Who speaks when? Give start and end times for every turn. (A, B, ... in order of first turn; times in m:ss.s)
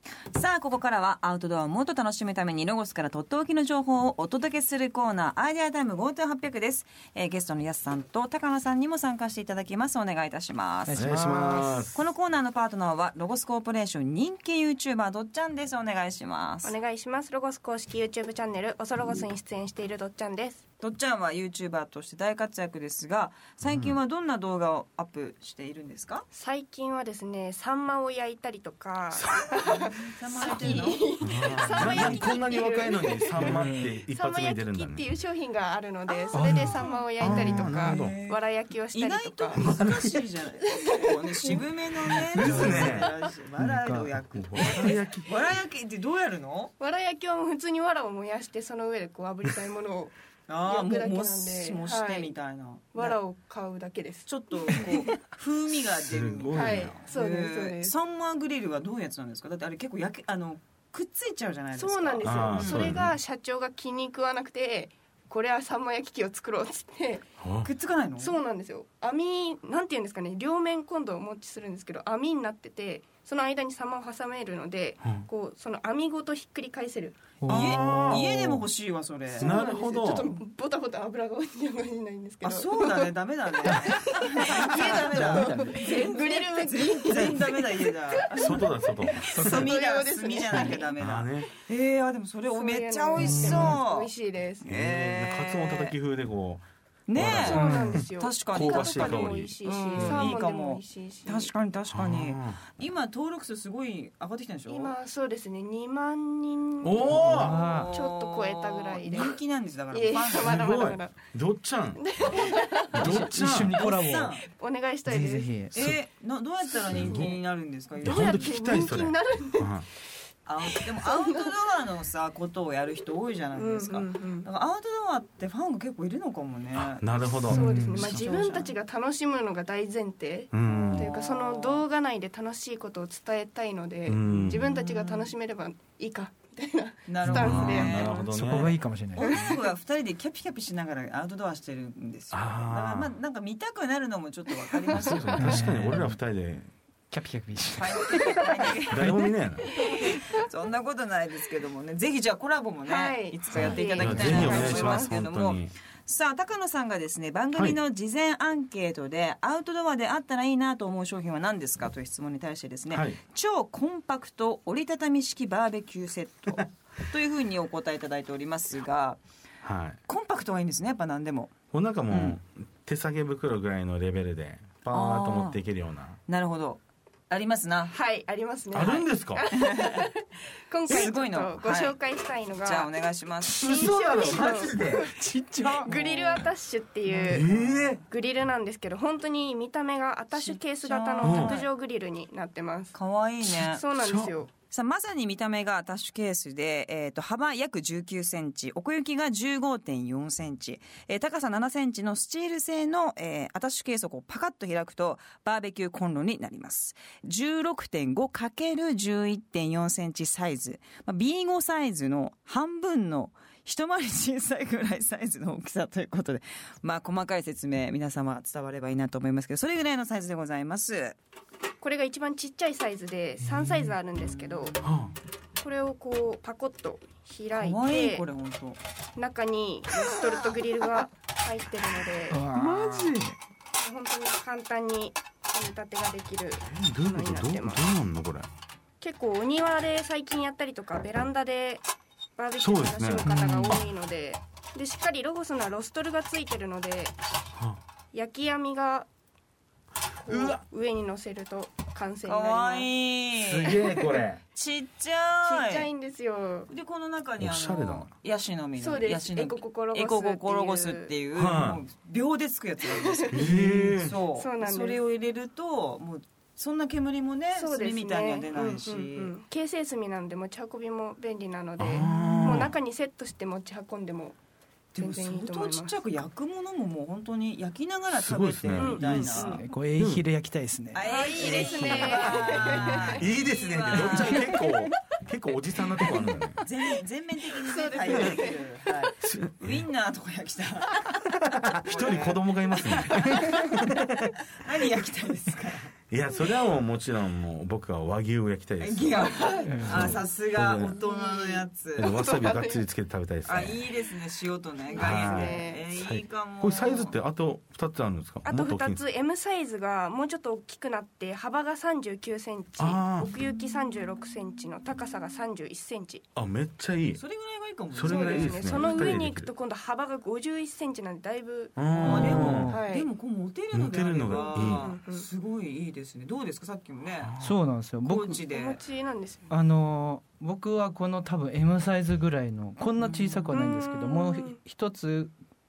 0:00.3-0:11.0 A
0:10.8-0:11.9 B
0:11.0-0:12.0 C
0:12.0-0:16.8 A
0:16.6-0:20.6 D
0:20.8-0:26.3 A
0:23.6-0:24.0 C
0:26.3-0:39.6 D
0:29.1-0:29.7 C
0:29.6-0:32.4 A
0:30.5-0:35.1 C
0:33.4-0:34.0 B
0:36.1-0:46.7 A
0:36.3-0:37.6 B
0:37.2-0:38.2 C
0:39.6-0:40.2 C
0:40.7-0:41.6 D
0:42.3-0:43.0 B
0:42.3-0:43.1 C
0:43.6-0:44.8 B
0:44.4-0:45.3 C
0:46.8-0:52.3 D
0:50.5-0:53.2 A
0:52.9-0:55.1 D
0:54.2-1:03.0 A
0:56.0-0:57.0 C
0:56.5-0:57.9 D
1:01.7-1:07.2 D
1:02.2-1:03.2 C
1:07.4-1:07.7 C
1:07.6-1:08.4 A
1:08.2-1:17.4 D
1:17.4-1:18.5 B
1:17.5-1:18.6 C
1:17.5-1:19.6 A
1:19.4-1:30.9 D
1:19.4-1:20.3 C
1:22.4-1:28.6 A
1:24.8-1:25.9 B
1:28.3-1:29.6 C
1:29.3-1:34.1 A
1:31.0-1:31.5 C
1:32.5-1:34.6 D
1:33.2-1:33.7 B
1:33.4-1:33.7 C
1:34.6-1:36.0 A
1:34.6-1:40.3 C
1:37.1-1:45.0 A
1:37.2-1:41.5 D
1:37.6-1:38.0 B
1:39.9-1:40.3 B
1:41.9-1:42.6 C
1:44.7-1:49.4 D
1:46.8-1:47.6 C
1:47.1-1:48.0 B
1:47.3-1:50.7 A
1:49.9-1:51.2 D
1:50.4-1:53.8 C
1:52.0-1:53.2 D
1:52.3-1:54.5 A
1:52.9-1:54.4 B
1:54.5-1:55.5 D
1:55.0-1:55.8 B
1:55.7-1:58.6 A
1:56.8-1:57.3 C
1:57.0-1:57.3 D
1:58.0-1:59.7 D
1:58.0-1:59.9 C
2:00.5-2:07.3 A
2:01.0-2:01.6 D
2:03.6-2:04.5 D
2:06.7-2:08.1 C
2:07.5-2:08.2 B
2:07.5-2:19.7 D
2:08.0-2:08.7 A
2:10.5-2:11.1 C
2:10.6-2:11.8 A
2:14.1-2:14.7 C
2:14.5-2:15.3 A
2:17.1-2:18.2 A
2:17.2-2:19.4 B
2:17.3-2:18.8 C
2:19.2-2:25.6 A
2:22.3-2:23.1 C
2:24.9-2:25.3 D
2:25.0-2:26.7 C
2:25.4-2:26.2 B
2:27.1-2:30.1 B
2:27.8-2:29.1 A
2:28.9-2:29.7 C
2:30.0-2:49.2 A
2:32.9-2:35.2 D
2:33.5-2:35.7 C
2:34.1-2:34.6 B
2:42.9-2:43.2 C
2:49.6-2:50.0 C
2:50.1-2:51.5 A
2:51.7-2:56.2 C
2:52.1-2:52.4 A
2:54.9-2:55.6 A
2:56.3-2:58.0 A
2:57.9-3:02.9 D
2:58.7-2:59.5 C
2:59.6-3:00.1 A
3:00.9-3:02.0 A
3:02.6-3:03.6 A
3:03.5-3:05.1 D
3:03.6-3:05.1 C
3:04.8-3:05.9 B
3:05.8-3:07.5 D
3:05.8-3:06.5 A
3:07.1-3:07.5 B
3:07.3-3:08.0 C
3:07.5-3:07.9 A
3:08.1-3:14.5 D
3:10.3-3:11.7 A
3:11.2-3:11.6 C
3:12.9-3:13.8 A
3:14.0-3:14.4 C
3:14.7-3:41.2 A
3:41.8-3:44.8 D
3:43.4-3:43.9 B
3:44.2-3:45.2 A
3:44.8-3:45.1 C
3:45.6-3:48.2 D
3:47.6-3:48.8 A
3:49.2-3:52.5 D
3:52.3-3:53.4 B
3:53.8-3:57.8 D
3:56.7-3:58.5 C
3:59.0-4:01.8 D
4:02.4-4:07.2 D
4:02.6-4:03.3 C
4:03.2-4:03.9 B
4:08.1-4:09.1 D
4:10.3-4:10.6 C
4:10.3-4:12.9 D
4:12.3-4:13.8 A
4:13.3-4:14.4 C
4:14.5-4:15.9 A
4:15.4-4:16.7 D
4:16.7-4:29.3 A
4:17.4-4:18.1 C
4:18.8-4:21.1 D
4:21.3-4:21.8 C
4:22.9-4:23.6 D
4:23.3-4:24.2 C
4:24.3-4:25.0 D
4:27.5-4:34.4 D
4:31.8-4:32.7 C
4:32.1-4:32.7 A
4:34.9-4:39.6 A
4:35.0-4:36.0 D
4:38.1-4:40.2 C
4:38.8-4:39.6 D
4:39.4-4:41.6 B
4:40.9-4:44.5 A
4:41.0-4:43.2 D
4:41.6-4:46.6 C
4:46.6-4:51.2 A
4:47.5-4:48.6 D
4:49.2-4:49.8 C
4:51.5-4:54.3 C
4:51.8-4:53.3 A
4:54.5-4:55.9 A
4:56.1-5:01.0 C
4:58.8-5:02.1 A
4:59.4-5:00.2 D
4:59.7-5:00.2 B
5:00.9-5:02.8 D
5:02.0-5:03.8 C
5:03.4-5:07.1 A
5:04.9-5:05.8 D
5:05.0-5:09.0 C
5:08.4-5:16.2 D
5:12.8-5:13.3 C
5:16.4-5:17.2 C
5:17.1-5:19.2 A
5:17.9-5:19.5 C
5:18.0-5:23.1 D
5:21.8-5:22.7 C
5:22.0-5:27.3 A
5:22.0-5:22.8 B
5:23.7-5:25.0 C
5:24.3-5:25.3 D
5:27.2-5:27.6 C
5:27.4-5:28.4 B
5:28.0-5:28.8 A
5:28.4-5:29.6 D
5:29.5-5:35.3 B
5:33.0-5:33.6 A
5:33.5-5:34.6 D